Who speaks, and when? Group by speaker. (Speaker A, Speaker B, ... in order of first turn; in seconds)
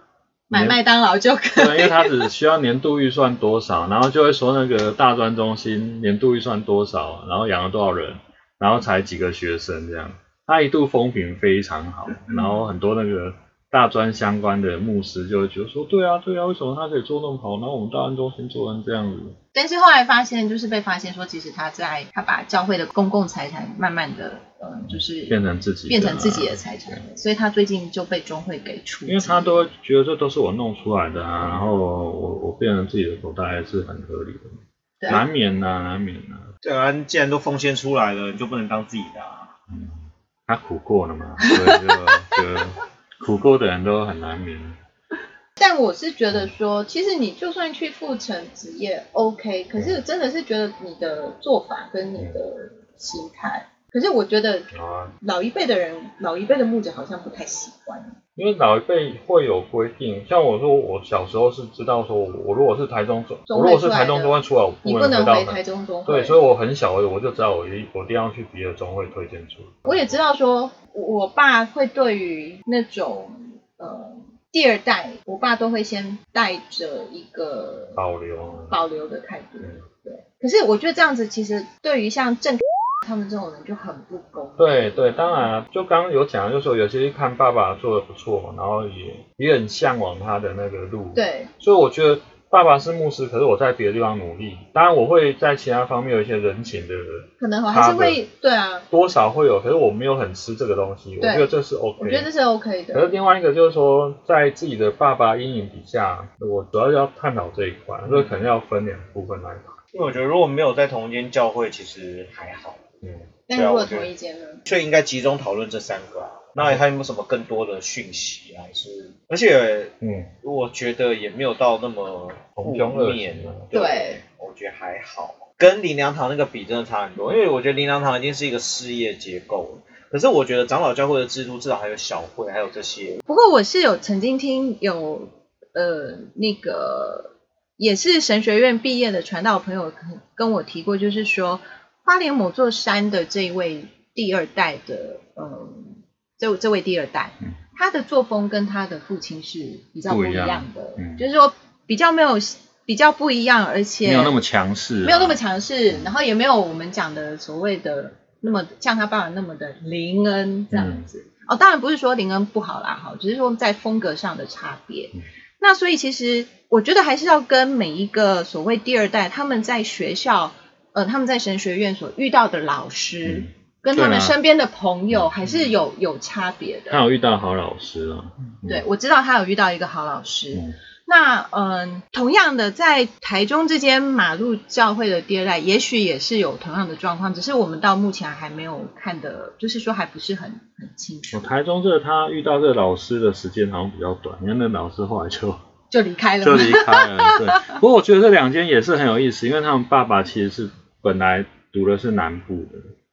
Speaker A: 0.5-2.3, 19.5-25.4, 25.9-29.7, 35.0-35.2, 41.4-42.4, 45.6-58.1, 63.5-66.4, 69.9-78.0, 78.7-85.5, 91.2-91.5, 97.4-98.9, 101.2-103.2, 113.5-114.7, 123.7-124.2, 133.3-154.4, 155.0-177.0, 178.7-191.5, 195.9-197.8
Speaker B: 0.5-0.8, 1.6-19.4, 24.9-27.0, 29.1-36.5, 39.7-44.8, 54.7-55.1, 58.4-70.1, 78.0-78.8, 84.6-98.2, 98.9-102.3, 102.9-109.8, 120.0-120.3, 122.6-123.7, 150.1-151.2, 154.0-155.4, 160.7-161.1, 173.2-174.4, 176.9-178.8, 191.3-195.6, 196.4-202.9
Speaker C: 36.6-39.5, 108.1-108.3, 109.9-114.1, 114.7-133.2